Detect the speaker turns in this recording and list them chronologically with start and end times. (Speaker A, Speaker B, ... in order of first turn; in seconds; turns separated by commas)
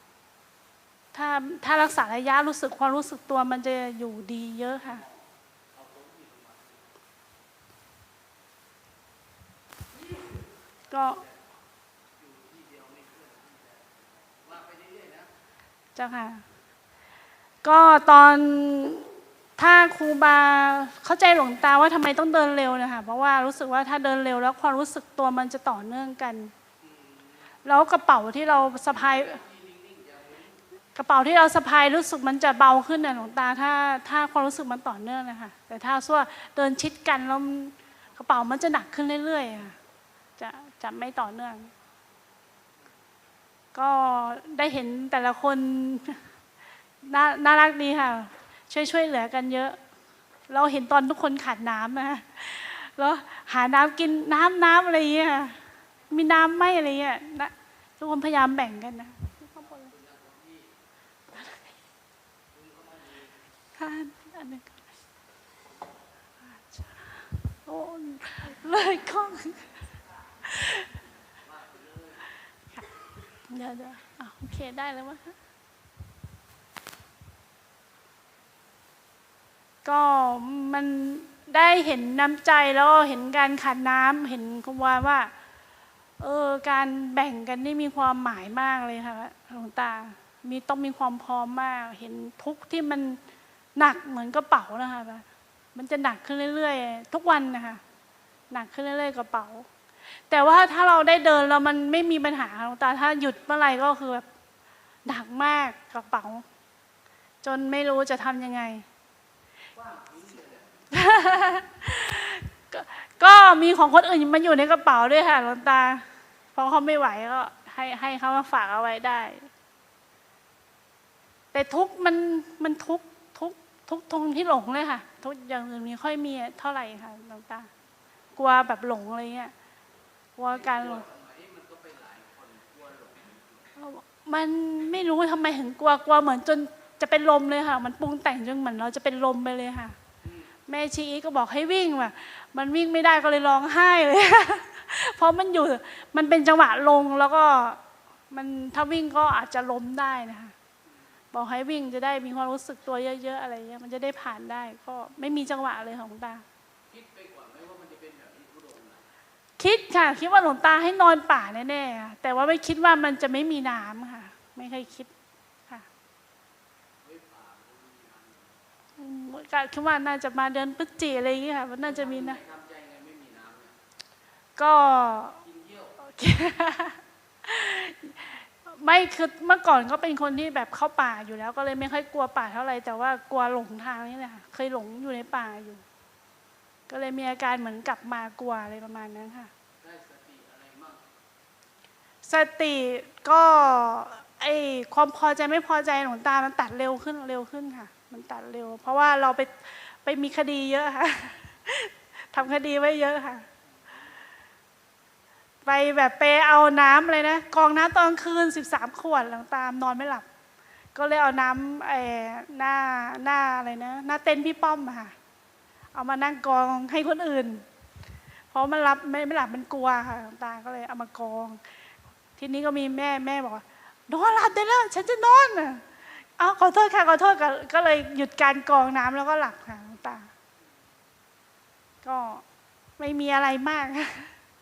Speaker A: 1.1-5.0, Speaker B: 4.8-6.9, Speaker B: 10.1-11.4, Speaker A: 10.9-11.2, Speaker B: 12.2-15.3, Speaker A: 16.0-16.4, Speaker A: 17.6-26.5, Speaker B: 26.8-27.5, Speaker A: 27.6-29.4, Speaker B: 28.9-30.6, Speaker A: 30.9-39.8, Speaker A: 40.4-41.7, Speaker A: 43.7-46.2, Speaker A: 47.0-49.8, Speaker A: 50.5-55.6, Speaker A: 56.1-59.9, Speaker B: 59.6-60.7, Speaker A: 61.3-61.7, Speaker B: 62.5-63.4, Speaker A: 63.8-64.8, Speaker A: 66.5-69.7, Speaker A: 70.4-70.9, Speaker B: 71.4-72.3, Speaker A: 73.5-75.4, Speaker A: 79.8-85.3, Speaker A: 86.2-93.2, Speaker A: 93.8-97.8, Speaker A: 98.5-99.7, Speaker A: 100.3-104.2, Speaker A: 105.0-106.5, Speaker A: 107.4-108.8, Speaker B: 109.7-110.9, Speaker A: 110.9-119.5, Speaker A: 121.5-127.7, Speaker A: 128.4-129.5, Speaker A: 130.4-131.1, Speaker B: 130.5-133.7, Speaker A: 133.8-140.0, Speaker B: 140.2-140.5, Speaker A: 140.7-150.5, Speaker A: 151.3-156.4, Speaker B: 156.9-159.1, Speaker A: 159.6-165.1, Speaker B: 167.0-168.6, Speaker A: 169.0-172.4, Speaker B: 171.8-173.7, Speaker A: 174.6-175.4, Speaker B: 175.4-176.0, Speaker A: 176.0-185.8, Speaker A: 186.9-189.5, Speaker B: 189.8-191.0, Speaker A: 192.2-203.5, Speaker A: 205.7-210.2, Speaker A: 210.9-215.1, Speaker A: 215.9-217.6, Speaker A: 218.5-221.6, Speaker A: 222.4-230.3, Speaker A: 232.0-232.4, Speaker A: 233.0-234.3